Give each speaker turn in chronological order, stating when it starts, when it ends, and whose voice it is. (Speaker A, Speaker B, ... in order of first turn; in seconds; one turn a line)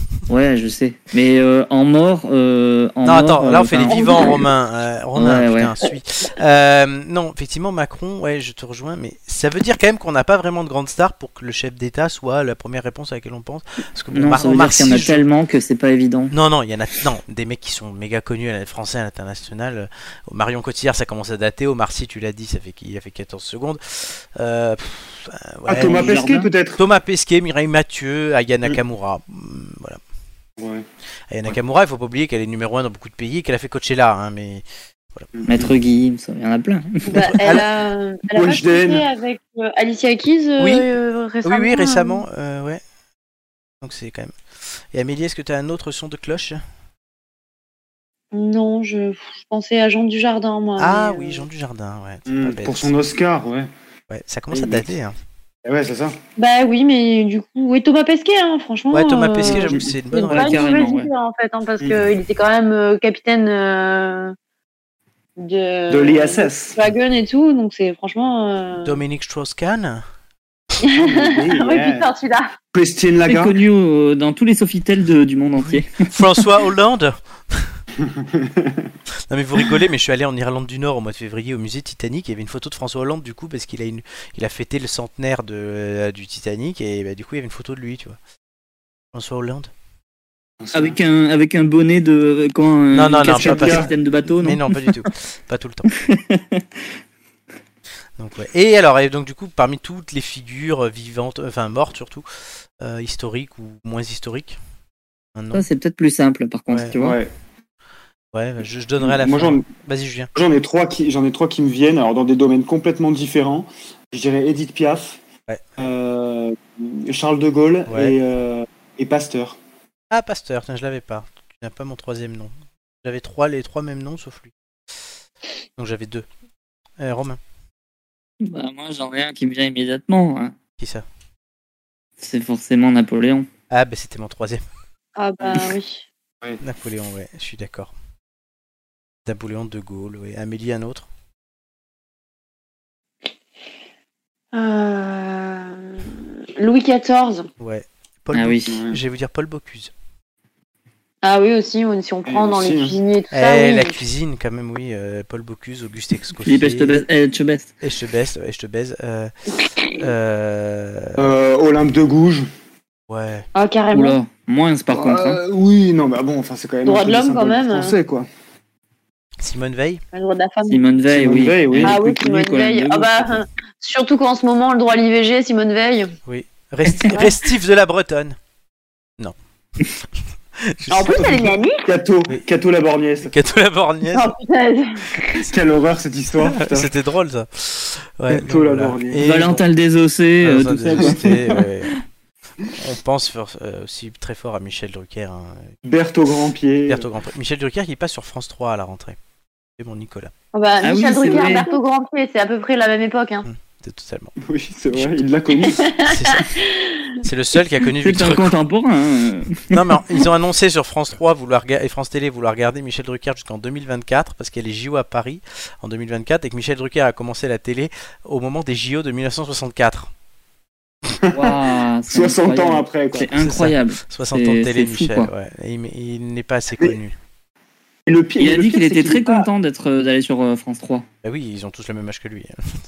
Speaker A: 0.3-4.3
Speaker B: 3.0-15.2
Speaker A: 5.2-5.7
Speaker A: 14.1-16.3
Speaker B: 16.3-26.2
Speaker C: 25.7-26.8
Speaker A: 25.8-26.5
Speaker B: 26.8-30.0
Speaker C: 30.6-30.9
Speaker B: 31.3-35.3
Speaker C: 35.4-35.7
Speaker A: 35.5-37.2
Speaker D: 37.1-42.2
Speaker B: 37.1-37.6
Speaker C: 38.3-39.1
Speaker B: 40.6-40.9
Speaker B: 41.4-42.8
Speaker B: 43.8-44.4
Speaker B: 44.9-46.6
Speaker D: 48.3-51.5
Speaker B: 50.8-52.9
Speaker C: 52.3-53.7
Speaker B: 54.1-55.1
Speaker C: 54.5-54.9
Speaker C: 55.6-56.2
Speaker D: 56.4-64.3
Speaker B: 58.9-60.6
Speaker C: 59.5-59.9
Speaker A: 60.3-61.1
Speaker C: 61.8-62.0
Speaker D: 65.4-69.0
Speaker C: 65.9-66.8
Speaker B: 68.8-70.0
Speaker D: 70.8-72.5
Speaker C: 71.0-72.1
Speaker C: 72.7-73.6
Speaker A: 73.3-76.1
Speaker B: 75.6-77.8
Speaker C: 78.0-78.9
Speaker B: 79.3-88.2
Speaker B: 89.1-89.7
Speaker C: 90.6-91.0
Speaker A: 90.7-94.9
Speaker B: 92.9-95.9
Speaker C: 93.2-93.9
Speaker A: 95.9-96.6
Speaker B: 98.2-102.3
Speaker B: 102.8-104.6
Speaker B: 105.3-105.7
Speaker A: 105.5-107.2
Speaker B: 106.7-107.0
Speaker C: 107.0-107.3
Speaker B: 108.3-110.3
Speaker C: 109.0-109.7
Speaker C: 110.3-115.2
Speaker C: 115.8-119.6
Speaker B: 117.9-118.2
Speaker B: 120.1-124.5
Speaker B: 125.8-126.3
Speaker B: 127.0-127.4
Speaker A: 128.4-130.6
Speaker B: 130.8-131.1
Speaker A: 132.2-133.5
Speaker B: 133.7-134.6
Speaker D: 135.2-136.1
Speaker B: 136.6-137.9
Speaker B: 139.3-141.1
Speaker D: 144.5-147.5
Speaker B: 147.6-149.9
Speaker A: 148.3-148.8
Speaker C: 148.7-149.0
Speaker D: 151.2-154.0
Speaker C: 152.3-153.0
Speaker B: 153.3-157.0
Speaker A: 156.4-157.7
Speaker B: 157.8-159.3
Speaker B: 160.0-161.3
Speaker C: 161.2-162.5
Speaker B: 163.1-163.5
Speaker D: 163.6-164.2
Speaker A: 163.9-165.4
Speaker C: 164.9-168.3
Speaker D: 166.8-167.9
Speaker B: 169.4-170.0
Speaker D: 170.1-170.8
Speaker A: 170.7-173.4
Speaker C: 171.1-172.0
Speaker D: 171.8-176.1
Speaker B: 176.3-178.4
Speaker B: 180.6-181.5
Speaker D: 180.9-181.8
Speaker C: 181.8-183.3
Speaker B: 183.2-184.3
Speaker D: 184.1-185.4
Speaker C: 185.4-186.9
Speaker B: 186.3-189.6
Speaker C: 188.3-189.2
Speaker A: 189.2-191.7
Speaker B: 190.4-191.9
Speaker C: 190.6-191.2
Speaker B: 192.7-195.7
Speaker C: 195.8-197.1
Speaker B: 196.9-199.2
Speaker B: 199.8-200.3
Speaker D: 200.5-203.5
Speaker A: 200.8-201.7
Speaker B: 203.4-204.3
Speaker C: 204.4-205.8
Speaker B: 204.9-205.2
Speaker D: 205.8-207.1
Speaker B: 206.0-206.5
Speaker B: 207.2-208.6
Speaker A: 208.0-210.0
Speaker B: 209.7-220.1
Speaker C: 221.2-221.6
Speaker A: 221.3-225.3
Speaker C: 222.1-223.3
Speaker B: 223.3-227.2
Speaker C: 228.1-229.5
Speaker A: 228.4-231.1
Speaker B: 231.2-232.8